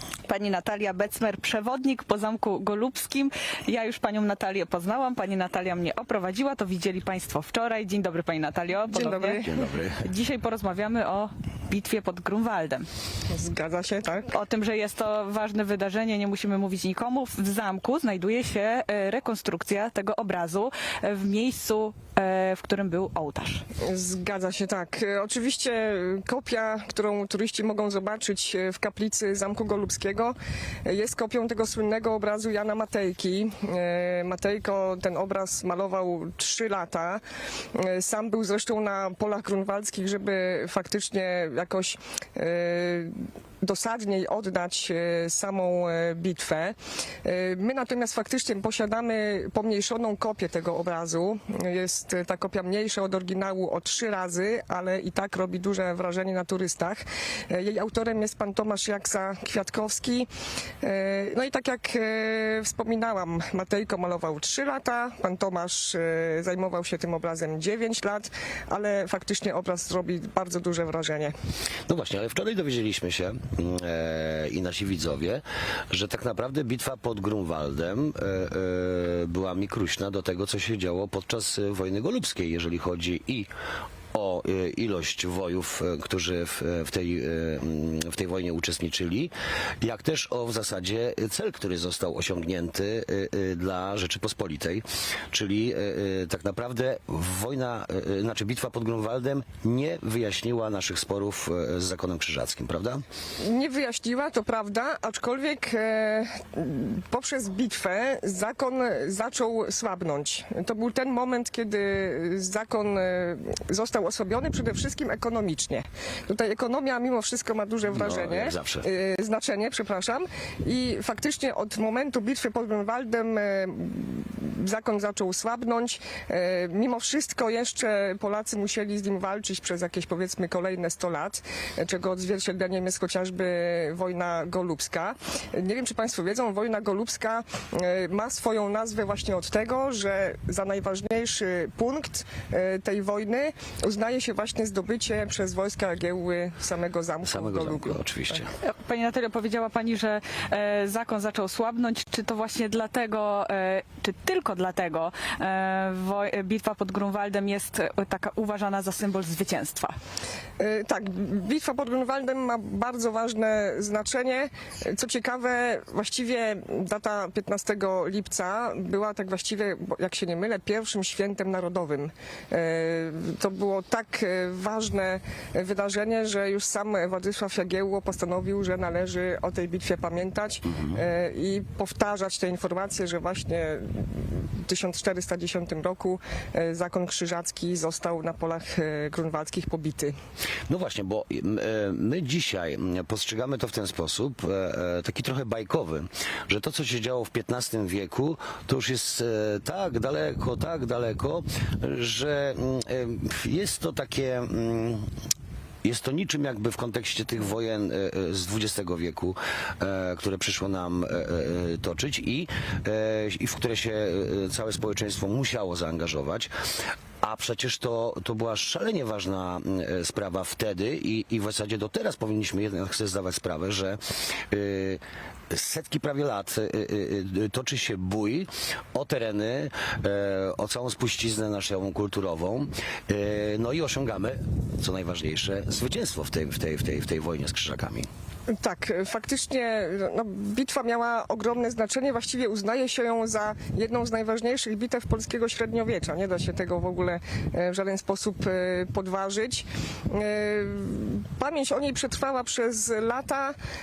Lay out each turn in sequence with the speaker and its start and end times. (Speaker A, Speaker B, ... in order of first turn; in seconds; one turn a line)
Speaker A: 0.3-12.9
Speaker B: 8.9-9.5
Speaker C: 9.4-10.0
Speaker B: 13.3-14.3
Speaker A: 14.3-23.6
Speaker B: 23.8-37.2
Speaker B: 37.7-60.3
Speaker B: 60.8-71.3
Speaker C: 71.9-83.5
Speaker C: 84.1-103.0
Speaker B: 103.4-148.3
Speaker C: 117.9-118.9
Speaker C: 147.2-148.5
Speaker A: 148.6-159.9
Speaker B: 160.6-190.1
Speaker C: 190.7-205.1
Speaker C: 205.8-216.5
Speaker C: 217.2-224.0
Speaker C: 224.5-238.1
Speaker B: 238.5-253.6